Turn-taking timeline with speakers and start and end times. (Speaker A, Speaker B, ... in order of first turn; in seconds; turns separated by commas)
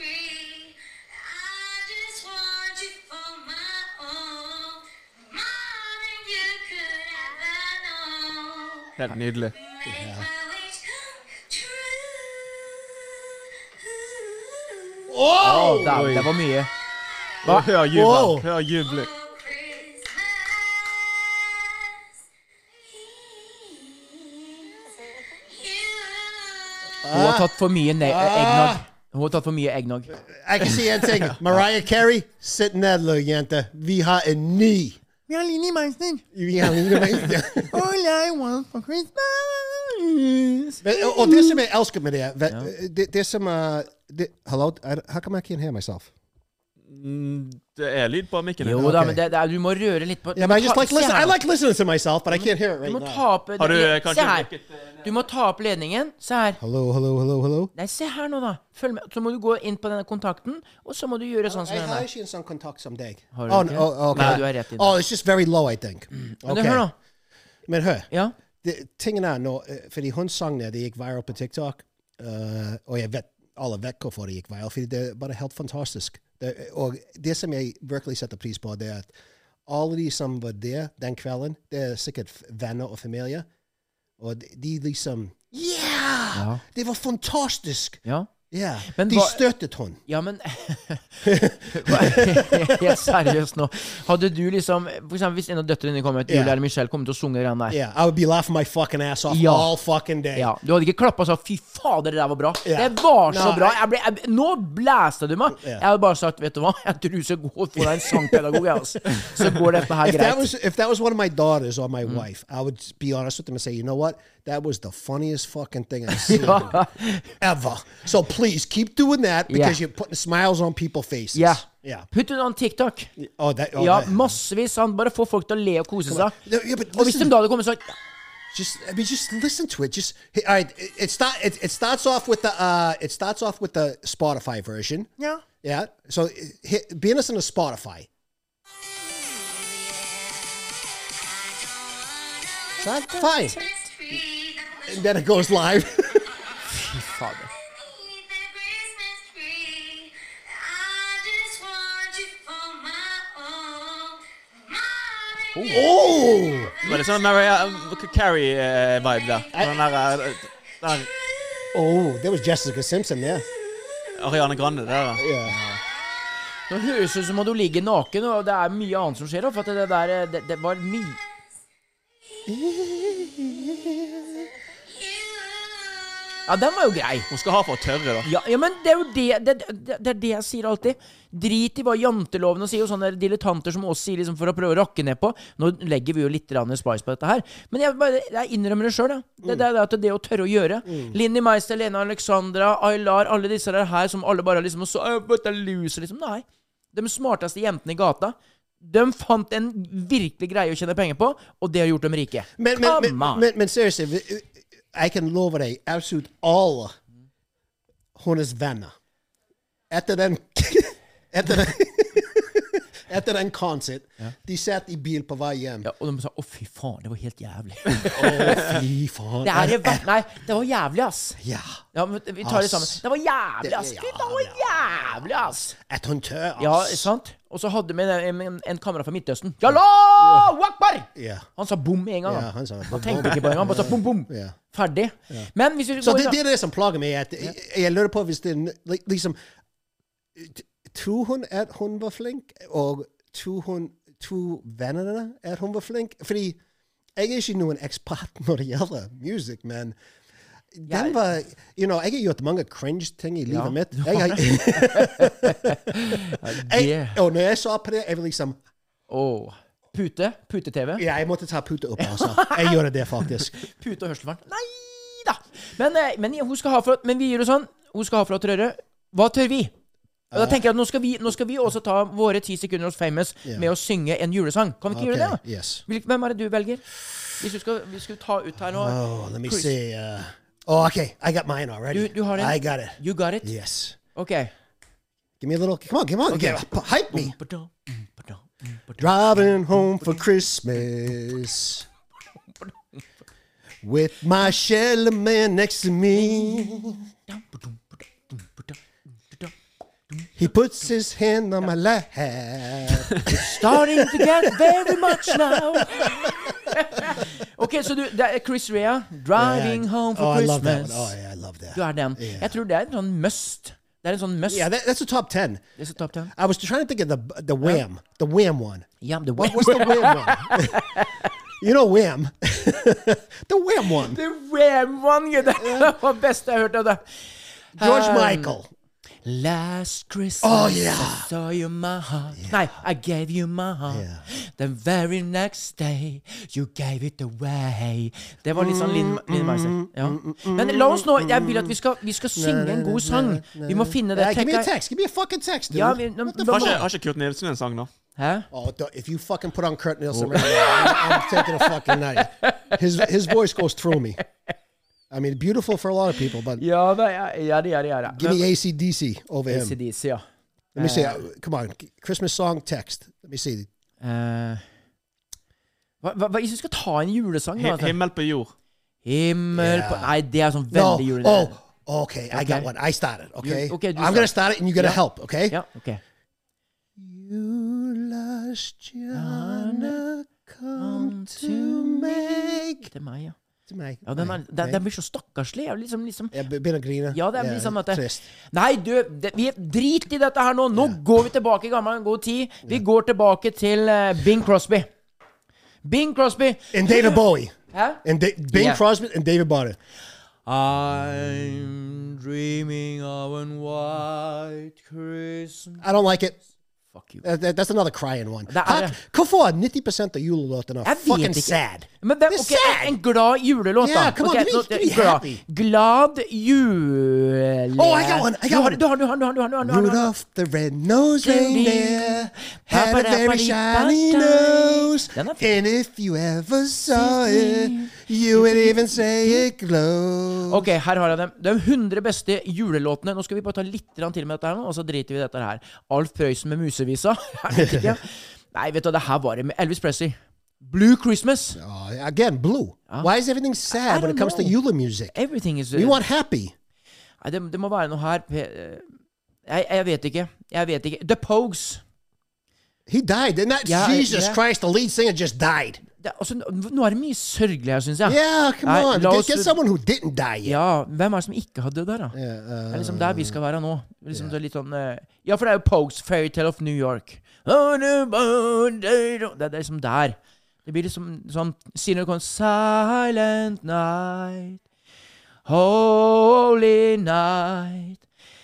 Speaker A: 9.0-9.5, Speaker B: 9.8-10.3, Speaker B: 15.1-16.1, Speaker C: 15.4-16.7, Speaker A: 15.6-16.3, Speaker A: 17.4-19.1, Speaker B: 17.8-18.5, Speaker B: 27.0-28.8, Speaker C: 27.1-30.1, Speaker B: 30.1-35.0, Speaker C: 35.3-41.6, Speaker B: 36.3-37.8, Speaker B: 40.8-46.1, Speaker A: 46.9-48.9, Speaker C: 48.6-51.4, Speaker B: 48.7-49.2, Speaker B: 50.3-53.2, Speaker C: 52.3-54.5, Speaker A: 53.6-55.0, Speaker C: 55.0-56.6, Speaker B: 56.6-57.7, Speaker C: 57.7-62.1, Speaker B: 61.5-66.9, Speaker C: 63.3-65.0, Speaker A: 64.1-64.4, Speaker C: 66.2-66.9, Speaker B: 67.7-68.1, Speaker B: 68.6-79.1, Speaker B: 79.7-83.5, Speaker B: 84.2-90.0, Speaker C: 86.3-86.6, Speaker C: 88.9-89.4, Speaker C: 90.1-97.8, Speaker B: 91.2-93.3, Speaker B: 96.3-96.6, Speaker B: 97.7-100.5, Speaker C: 99.3-99.7, Speaker C: 100.3-110.5, Speaker B: 102.6-103.8, Speaker B: 105.5-105.8, Speaker B: 107.8-116.8, Speaker C: 116.1-117.3, Speaker B: 117.4-122.1, Speaker C: 119.5-119.8, Speaker C: 121.3-123.1, Speaker B: 123.2-124.4, Speaker C: 123.8-126.4, Speaker B: 126.0-127.4, Speaker C: 126.9-128.0, Speaker B: 128.5-135.1, Speaker B: 135.6-138.1, Speaker B: 142.8-143.6, Speaker C: 143.1-143.9, Speaker B: 144.8-146.3, Speaker C: 146.7-147.5, Speaker C: 155.5-155.9, Speaker B: 155.7-156.9, Speaker A: 156.8-161.1, Speaker B: 161.7-163.4, Speaker A: 164.1-165.2, Speaker B: 165.2-165.6, Speaker C: 166.7-171.2, Speaker B: 172.5-174.4, Speaker C: 176.5-177.3, Speaker A: 177.3-178.3, Speaker C: 178.2-203.4, Speaker B: 190.8-191.2, Speaker B: 202.6-206.9, Speaker B: 208.2-208.9, Speaker B: 209.9-215.9, Speaker C: 215.8-218.9, Speaker B: 218.2-220.1, Speaker A: 218.2-218.6, Speaker C: 219.4-221.4, Speaker B: 221.4-221.8, Speaker C: 221.9-225.7, Speaker B: 222.4-223.0, Speaker B: 223.6-227.1, Speaker C: 226.6-236.4, Speaker B: 229.7-230.5, Speaker B: 231.1-231.4, Speaker B: 232.2-234.6, Speaker B: 235.3-239.3, Speaker B: 240.3-246.6, Speaker B: 247.2-250.0, Speaker B: 250.8-258.6, Speaker C: 250.9-251.2, Speaker C: 253.5-257.2, Speaker C: 259.1-261.0, Speaker B: 261.0-263.5, Speaker C: 262.0-262.8, Speaker C: 263.5-269.7, Speaker B: 270.3-270.6, Speaker C: 270.3-276.8, Speaker B: 273.4-273.7, Speaker B: 274.9-275.8, Speaker C: 277.4-279.7, Speaker B: 278.6-284.0, Speaker C: 281.9-283.5, Speaker C: 284.1-284.5, Speaker B: 285.4-287.4, Speaker C: 286.3-289.1, Speaker B: 289.0-291.9, Speaker C: 289.7-290.2, Speaker B: 293.8-297.1, Speaker C: 296.4-296.8, Speaker C: 297.3-298.7, Speaker B: 300.4-307.2, Speaker C: 303.2-311.1, Speaker B: 309.3-312.6, Speaker C: 311.7-314.7, Speaker B: 314.5-315.6, Speaker C: 315.8-316.3, Speaker B: 316.3-321.0, Speaker C: 319.0-321.3, Speaker B: 321.6-324.2, Speaker C: 323.9-327.0, Speaker B: 325.5-325.9, Speaker C: 327.7-328.6, Speaker B: 327.8-328.7, Speaker C: 329.2-344.7, Speaker B: 330.4-331.3, Speaker B: 332.4-332.7, Speaker B: 333.9-334.2, Speaker B: 338.5-341.8, Speaker B: 342.3-346.9, Speaker C: 345.7-346.9, Speaker A: 346.4-347.9, Speaker C: 348.1-348.5, Speaker B: 348.5-354.2, Speaker C: 350.1-352.8, Speaker B: 355.1-356.6, Speaker C: 356.6-358.4, Speaker B: 358.1-359.8, Speaker C: 359.5-360.2, Speaker C: 360.7-361.2, Speaker B: 360.8-363.7, Speaker C: 364.0-364.6, Speaker C: 366.0-368.0, Speaker A: 367.6-368.5, Speaker C: 369.0-371.6, Speaker B: 369.6-370.2, Speaker B: 370.7-375.6, Speaker C: 372.3-372.7, Speaker C: 373.4-376.0, Speaker B: 377.0-382.9, Speaker C: 379.1-380.0, Speaker C: 380.8-383.4, Speaker B: 383.7-384.8, Speaker C: 384.1-386.3, Speaker B: 386.3-388.3, Speaker C: 387.1-394.9, Speaker B: 390.7-391.0, Speaker C: 395.8-397.2, Speaker B: 396.7-399.8, Speaker C: 397.7-398.8, Speaker C: 400.4-405.9, Speaker B: 405.8-406.4, Speaker C: 406.9-407.2, Speaker B: 407.2-413.0, Speaker C: 408.5-409.0, Speaker C: 410.8-420.1, Speaker B: 413.8-415.4, Speaker B: 417.8-418.8, Speaker B: 419.6-430.7, Speaker C: 421.2-425.5, Speaker C: 426.9-429.5, Speaker C: 430.5-441.6, Speaker B: 437.6-437.9, Speaker B: 441.6-445.2, Speaker C: 443.7-444.6, Speaker C: 445.1-446.0, Speaker B: 445.7-446.5, Speaker C: 447.2-448.9, Speaker C: 449.5-451.8, Speaker B: 452.9-455.8, Speaker C: 453.6-454.4, Speaker C: 456.0-459.6, Speaker B: 458.0-460.6, Speaker C: 460.4-462.1, Speaker B: 462.1-463.4, Speaker C: 462.7-474.6, Speaker C: 475.4-478.0